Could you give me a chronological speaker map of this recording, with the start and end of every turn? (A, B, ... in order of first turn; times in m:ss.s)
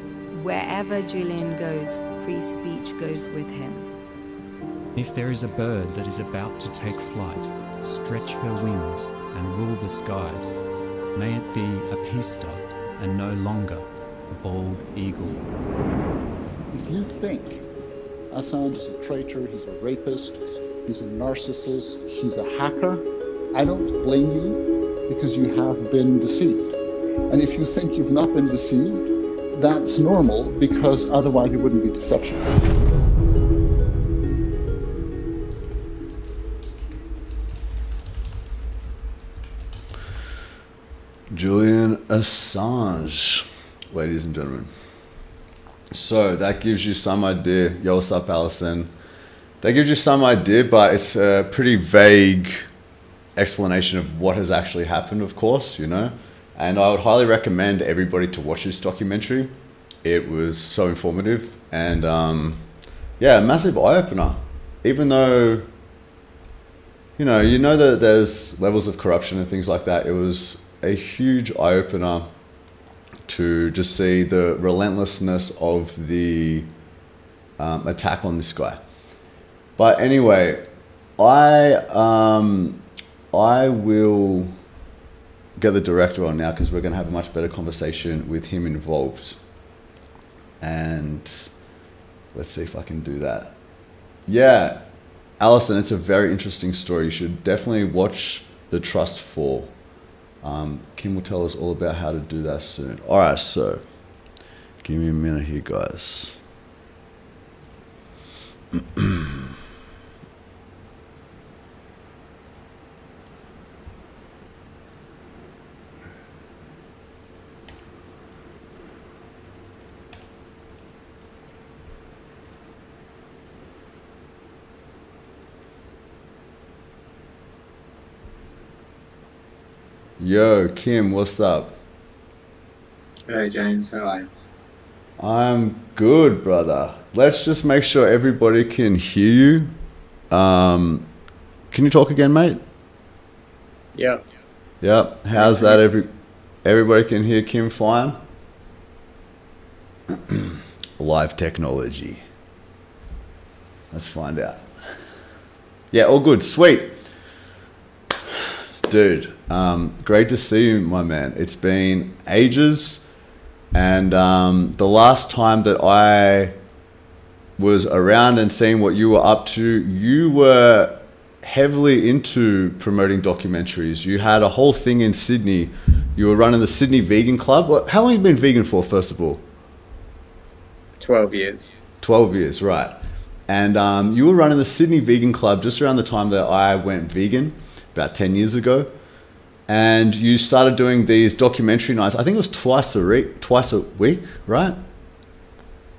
0:00.3-0:03.9 A
0:04.9-0:10.6 B
0:11.1-0:15.5 B
0:16.7-0:17.6 C
0:18.3-0:26.7 C
0:27.3-0:32.6 C
0:41.3-0:44.7 D
0:45.9-0:48.9 D
0:49.6-0:52.7 D
0:53.4-0:59.5 D
1:00.0-1:02.6 D
1:03.2-1:05.7 D
1:07.2-1:12.3 D
1:13.3-1:16.7 D
1:17.6-1:18.8 D
1:19.8-1:20.6 D
1:21.2-1:24.6 D
1:25.6-1:29.4 D
1:30.6-1:31.5 D
1:32.3-1:33.5 D
1:34.3-1:34.8 D
1:35.4-1:39.7 D
1:40.4-1:43.8 D
1:44.8-1:46.4 D
1:49.0-1:49.2 D
2:10.2-2:11.8 D
2:13.3-2:14.2 E
2:15.2-2:19.7 D
2:20.3-2:21.1 D
2:21.7-2:22.6 D
2:23.9-2:24.2 E
2:24.8-2:26.1 D
2:25.3-2:25.8 E
2:26.6-2:28.2 D
2:30.1-2:32.2 D
2:33.9-2:34.7 D
2:35.9-2:37.0 D
2:38.9-2:43.1 D
2:43.7-2:46.5 D
2:47.6-2:59.4 D
3:01.0-3:01.7 E
3:02.0-3:08.9 D
3:09.7-3:14.8 D